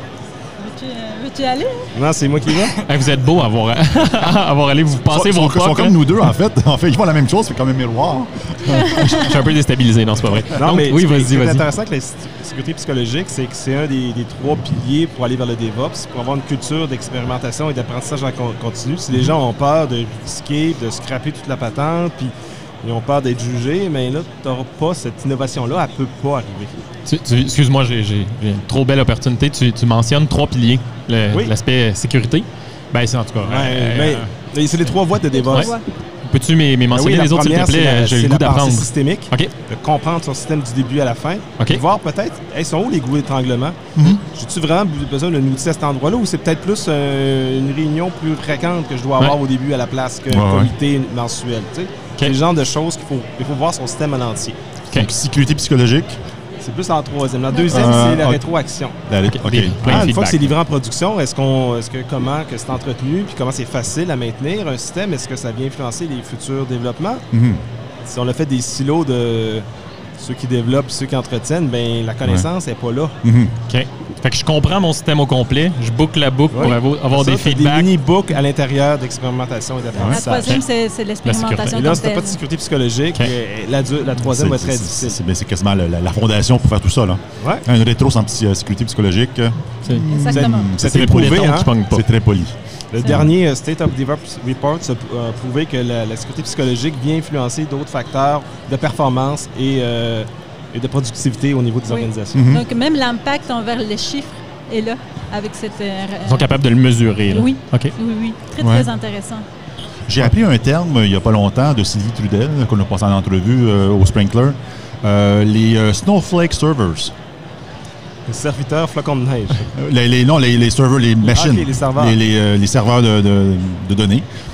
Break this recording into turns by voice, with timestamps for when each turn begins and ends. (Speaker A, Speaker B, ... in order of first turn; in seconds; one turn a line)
Speaker A: 0.6-1.9
Speaker B: 1.9-2.8
Speaker C: 2.8-6.1
Speaker D: 5.0-9.4
Speaker A: 8.7-9.3
Speaker C: 8.8-11.6
Speaker B: 10.6-26.8
Speaker C: 27.1-34.3
Speaker B: 33.4-35.7
Speaker A: 35.3-35.9
Speaker C: 36.2-39.5
Speaker B: 36.9-54.6
Speaker D: 50.3-50.7
Speaker D: 54.9-56.2
Speaker B: 56.6-59.0
Speaker A: 57.5-58.0
Speaker D: 57.6-58.5
Speaker D: 59.0-60.1
Speaker C: 59.3-60.5
Speaker B: 59.8-67.2
Speaker D: 67.3-67.6
Speaker B: 68.0-69.6
Speaker B: 70.2-73.2
Speaker D: 73.2-73.5
Speaker C: 73.7-77.9
Speaker B: 76.5-80.6
Speaker D: 79.9-80.2
Speaker A: 80.1-82.4
Speaker C: 81.2-81.9
Speaker B: 81.7-85.2
Speaker D: 84.2-93.3
Speaker B: 87.4-87.7
Speaker A: 90.1-90.7
Speaker B: 90.3-91.7
Speaker C: 90.8-92.0
Speaker B: 92.9-102.5
Speaker A: 101.9-106.5
Speaker D: 102.3-102.6
Speaker C: 106.3-107.9
Speaker A: 107.3-109.4
Speaker D: 108.6-108.9
Speaker D: 110.1-117.1
Speaker B: 118.3-119.7
Speaker D: 119.7-124.2
Speaker B: 121.2-122.2